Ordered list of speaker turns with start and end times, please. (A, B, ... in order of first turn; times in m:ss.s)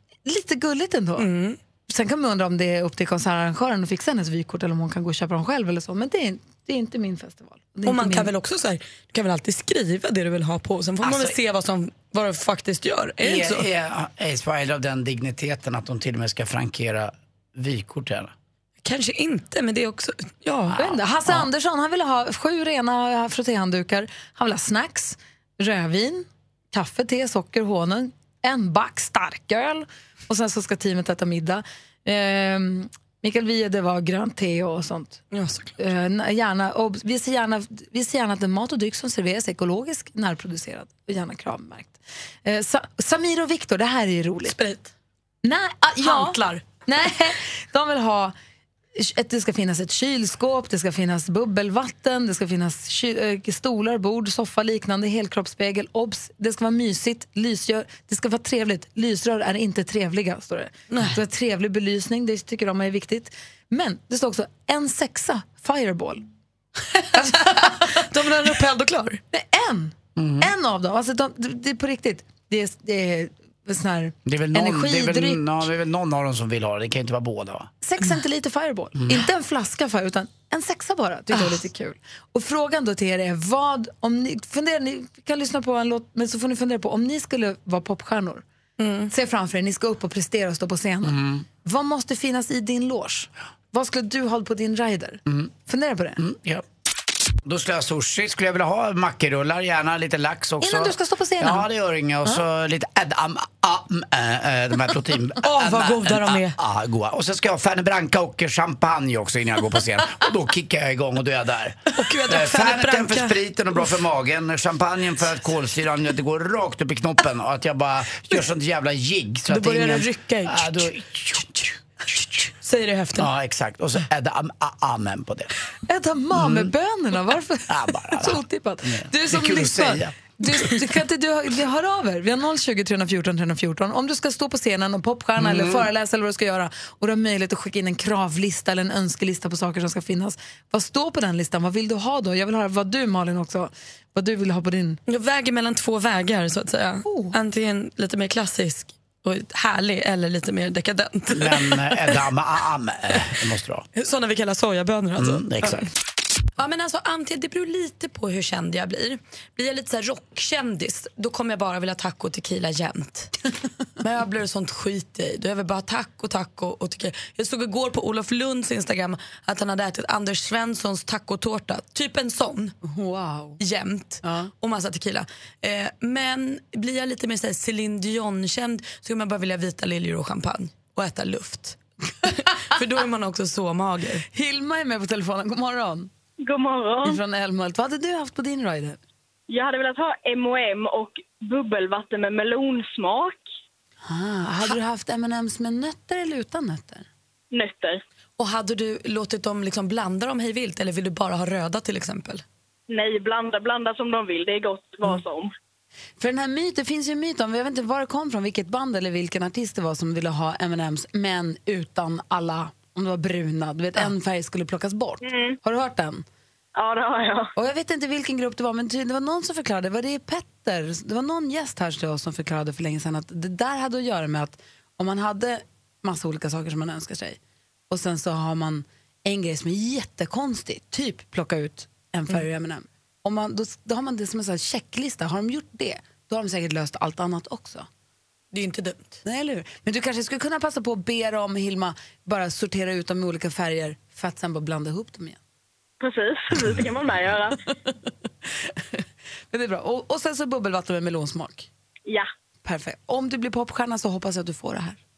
0:00.2-0:01.3 A
0:01.2-0:01.6 B
0:01.9-0:08.3 A
0:07.8-0:13.7 B
0:11.0-0:11.4 C
0:13.2-0:18.3 C
0:18.8-0:20.9 B
0:20.7-0:35.2 A
0:35.3-0:35.8 B
0:35.8-0:44.6 A
0:44.4-0:44.9 B
0:45.4-0:48.3 A
0:46.0-0:46.6 B
0:49.0-1:06.2 A
1:00.9-1:01.2 B
1:07.1-1:08.0 A
1:07.2-1:09.2 B
1:09.3-1:15.4 A
1:10.2-1:10.5 C
1:14.2-1:17.7 C
1:17.8-1:28.4 A
1:18.9-1:19.3 C
1:28.8-1:29.1 B
1:29.1-1:36.2 A
1:31.0-1:31.4 C
1:36.2-1:36.6 C
1:37.4-2:01.8 C
1:40.6-1:41.7 A
1:45.4-1:46.6 B
1:51.9-1:53.4 B
1:59.5-2:00.9 B
2:02.5-2:03.3 B
2:03.2-2:05.5 C
2:05.9-2:25.0 A
2:06.3-2:06.7 C
2:07.7-2:10.8 C
2:15.4-2:15.9 C
2:25.1-2:31.9 B
2:27.0-2:27.4 A
2:31.3-2:33.8 C
2:33.9-2:35.7 B
2:35.2-2:35.9 C
2:36.6-2:43.3 B
2:44.0-2:52.7 B
2:52.8-2:53.6 A
2:53.6-3:04.2 B
2:54.2-2:54.5 A
3:04.3-3:06.1 A
3:06.4-3:07.2 D
3:07.0-3:09.0 A
3:09.5-3:13.4 D
3:14.0-3:17.1 A
3:17.5-3:18.0 D
3:18.4-3:22.4 B
3:22.9-3:25.5 D
3:26.2-3:36.2 A
3:36.8-3:37.4 D
3:37.5-3:47.4 A
3:47.9-3:57.9 A
3:58.5-3:59.2 B
3:59.2-4:05.4 A
4:06.0-4:07.5 D
4:07.8-4:11.7 A
4:12.6-4:15.0 A